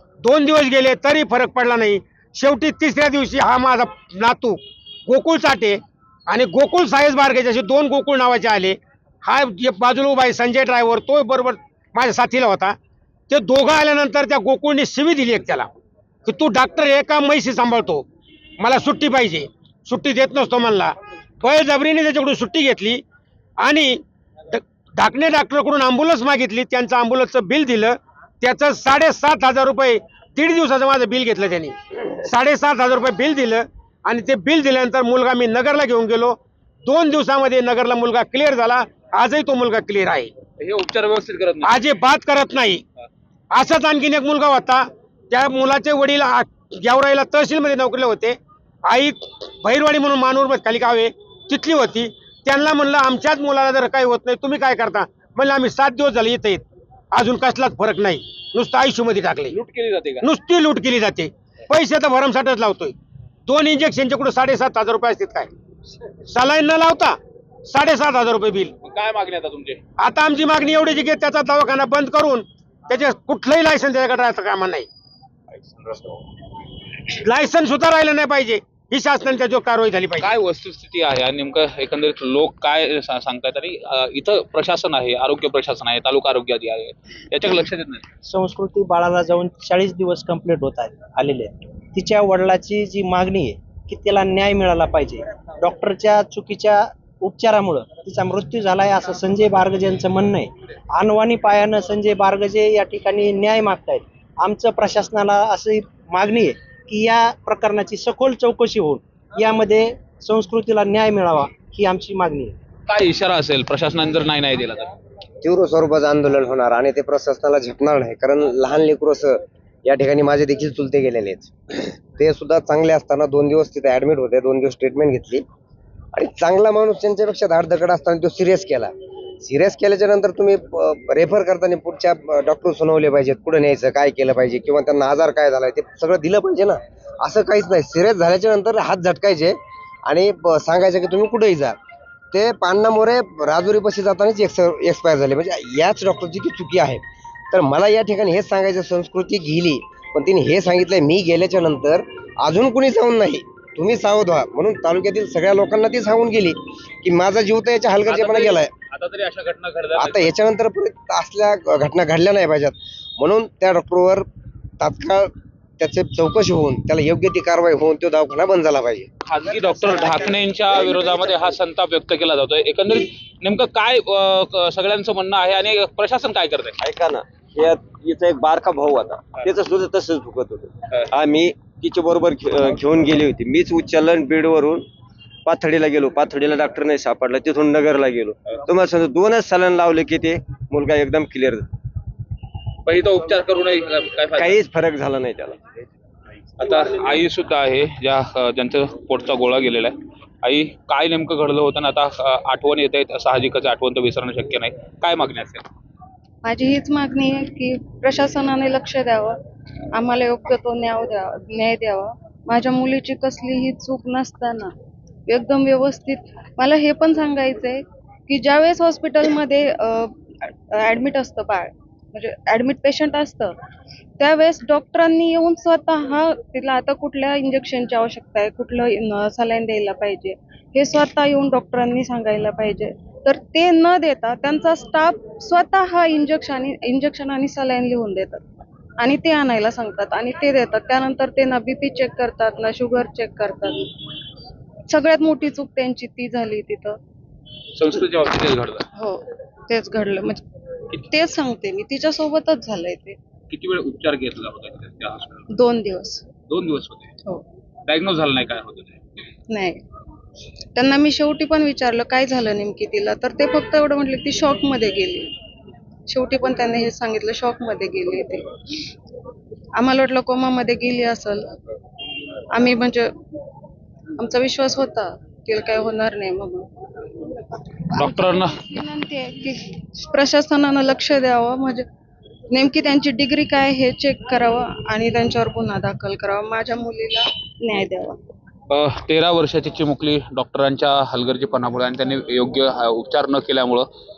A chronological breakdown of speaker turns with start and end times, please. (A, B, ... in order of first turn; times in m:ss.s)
0:00.2-0:12.8 A
0:13.3-0:15.7 A
0:16.2-0:18.0 A
0:18.6-0:23.0 A
0:23.6-0:40.3 A
0:40.6-0:41.8 B
0:41.6-0:42.8 A
0:43.5-0:59.5 A
0:59.5-1:00.3 B
1:00.2-1:02.9 A
1:03.4-1:05.5 A
1:06.3-1:08.7 A
1:08.8-1:09.8 B
1:10.0-1:14.9 A
1:15.7-1:16.1 B
1:17.2-1:20.2 A
1:20.2-1:28.0 B
1:28.2-1:52.6 C
1:52.9-1:54.9 B
1:55.4-2:05.4 D
2:06.2-2:21.8 D
2:22.3-2:38.7 D
2:38.1-2:40.3 B
2:40.0-2:44.2 D
2:44.8-2:49.1 D
2:49.2-2:56.7 B
2:56.8-3:04.9 E
3:05.4-3:11.6 E
3:12.8-3:14.6 B
3:14.4-3:15.8 E
3:16.6-3:25.6 B
3:26.4-3:29.4 F
3:29.9-3:34.7 F
3:35.3-3:40.1 F
3:40.7-3:43.5 F
3:44.2-3:58.4 F
3:59.0-4:03.9 F
4:04.9-4:07.0 F
4:07.7-4:08.9 B
4:09.0-4:13.2 F
4:13.5-4:15.4 B
4:15.5-4:16.3 F
4:16.5-4:17.1 B
4:17.9-4:19.0 B
4:19.5-4:19.8 F
4:20.7-4:25.3 F
4:26.1-4:28.5 F
4:29.8-4:31.5 F
4:32.5-4:33.1 F
4:34.2-4:36.7 F
4:37.9-4:38.5 B
4:38.0-4:41.8 F
4:42.5-4:48.2 F
4:48.7-4:53.9 B